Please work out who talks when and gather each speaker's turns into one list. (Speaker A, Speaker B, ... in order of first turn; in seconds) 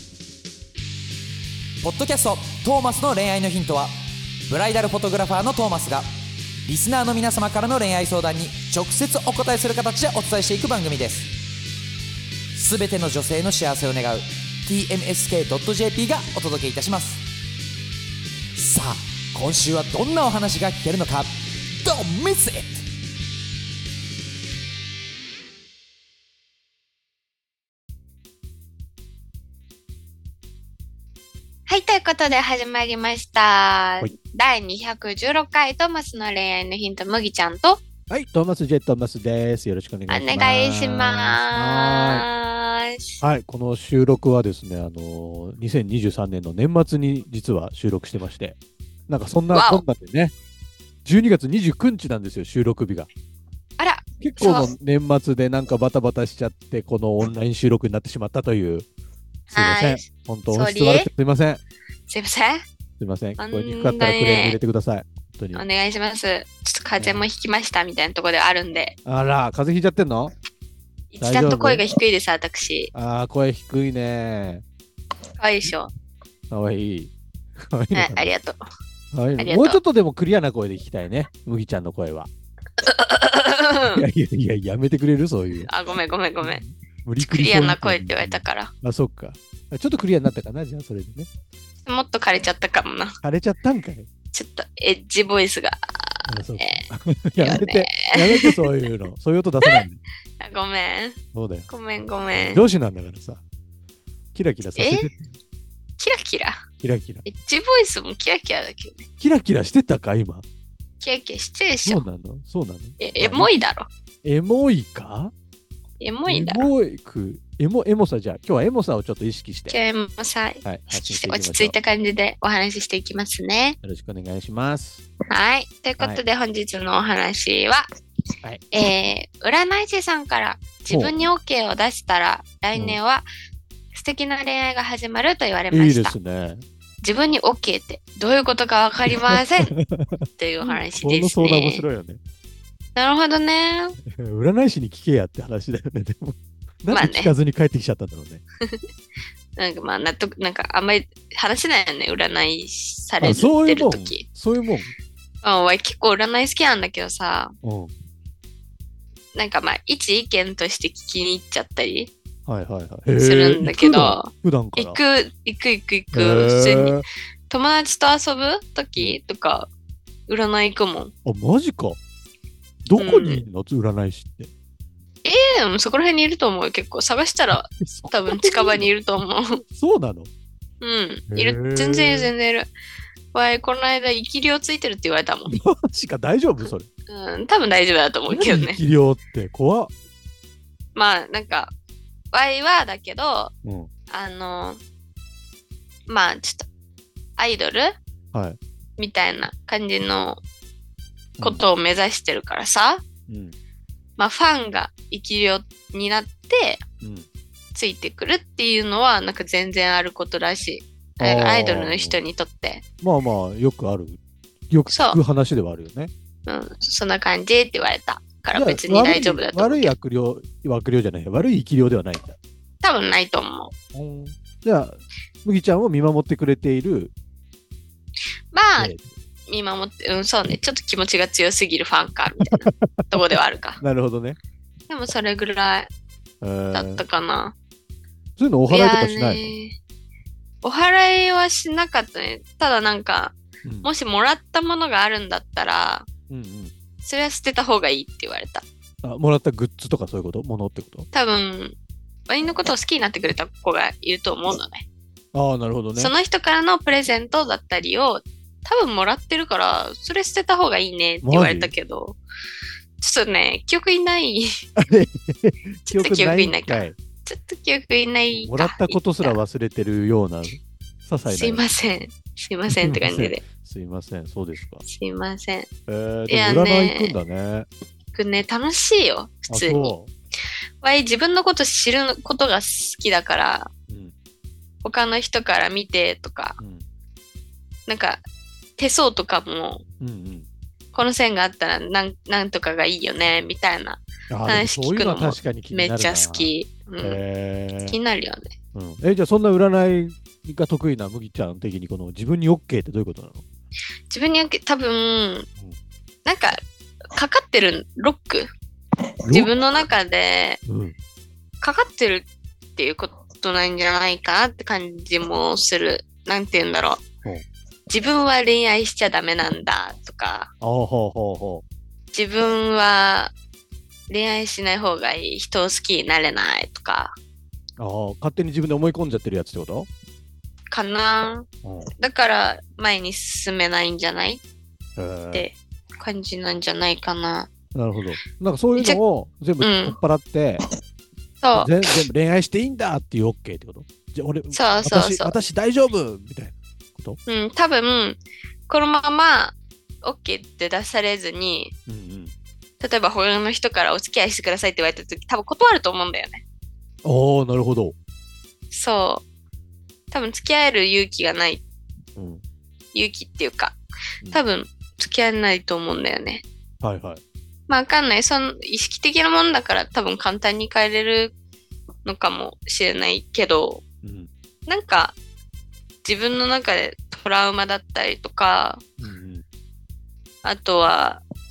Speaker A: 1.8-3.9, 4.5-6.0, 6.6-11.3, 12.5-17.2, 18.5-21.3, 21.8-22.7
Speaker B: 31.7-37.8, 40.1-43.2, 49.5-49.8, 53.8-54.7, 59.5-61.1, 62.1-62.6, 63.4-64.6, 65.5-69.0, 71.1-72.9, 75.4-75.9, 77.9-78.6, 79.4-79.8, 82.8-84.0, 85.7-86.6, 87.2-88.7, 91.8-93.2, 94.3-96.8, 97.4-98.7, 100.4-101.2, 101.7-102.6, 104.7-105.1, 106.0-106.6, 107.2-109.1, 111.0-112.0, 113.0-113.9, 116.0-116.7, 119.7-123.8, 125.3-127.8, 128.7-133.3, 133.9-136.1, 137.0-139.7, 140.4-141.8, 142.9-144.0, 146.9-147.3, 149.6-154.2, 155.4-157.5, 159.3-162.1, 163.2-169.7, 170.3-171.1, 173.0-173.4, 175.2-179.6, 180.8-182.7, 183.3-185.6, 187.1-188.8, 190.9-191.7, 192.3-193.5, 194.1-194.8, 196.1-196.7, 197.4-197.9, 199.0-200.4, 201.4-203.0, 204.2-206.8, 207.7-212.8, 214.9-215.2, 216.5-219.9, 222.8-223.7, 228.5-228.9, 229.5-233.8, 234.9-235.9, 236.7-237.5, 238.7-239.7, 240.6-246.1, 247.0-248.6, 251.1-251.7, 252.3-254.8, 255.9-262.2, 263.0-264.5, 265.9-269.4, 271.3-273.4, 274.8-275.7, 276.3-277.1, 278.1-279.9, 280.8-283.7, 284.8-286.6, 287.9-288.2, 288.8-289.8, 290.9-297.2, 297.9-298.5, 304.1-305.5, 306.2-306.6, 307.1-308.5, 309.3-310.6, 311.6-317.0, 317.9-320.5, 322.1-323.3, 324.1-327.1, 330.7-331.5, 332.0-334.4, 335.3-337.5, 339.6-340.0, 341.4-341.9, 344.5-345.4, 347.3-351.7, 352.8-356.4, 358.7-359.2, 360.1-361.6, 362.9-363.8, 364.3-366.4, 367.7-371.3, 372.0-373.8, 374.7-375.2, 376.0-378.8, 380.4-381.2
Speaker C: 38.1-42.3, 43.2-48.6, 49.1-50.3, 51.0-53.1, 54.2-58.9, 59.5-61.6, 63.0-65.6, 67.0-67.3, 69.0-70.3, 71.2-71.8, 72.9-74.6, 76.5-78.3, 79.1-82.3, 83.8-85.7, 86.4-91.3, 93.2-94.1, 96.3-100.0, 101.3-101.7, 102.3-103.4, 104.3-105.3, 106.8-107.2, 109.2-110.4, 111.8-113.5, 114.2-115.3, 116.2-119.8, 120.6-121.7, 123.8-125.0, 130.9-131.3, 135.7-136.6, 139.1-142.2, 144.1-148.4, 153.2-154.9, 157.6-157.9, 162.4-165.0, 166.1-167.0, 171.2-172.0, 172.8-174.5, 177.5-178.9, 179.5-180.3, 181.3-182.3, 185.5-186.9, 188.3-189.9, 193.6-193.9, 201.4-201.6, 203.3-203.5, 207.0-207.3, 211.2-212.2, 213.0-216.1, 218.5-222.4, 223.9-227.1, 228.8-229.1, 232.7-233.2, 233.8-234.4, 236.4-237.0, 238.4-239.5, 243.6-243.9, 246.3-246.7, 249.0-251.1, 255.3-256.1, 261.2-261.7, 264.8-267.0, 268.3-271.7, 272.7-274.8, 275.9-277.7, 279.5-280.1, 283.9-284.1, 286.6-286.8, 290.0-290.5, 294.3-298.0, 298.7-303.4, 309.2-309.5, 310.6-310.9, 320.6-321.6, 327.8-329.9, 331.6-331.9, 335.0-335.5, 337.7-340.6, 341.5-347.2, 351.9-352.3, 357.0-357.9, 362.1-362.4, 366.8-367.2, 374.0-374.3, 379.0-379.4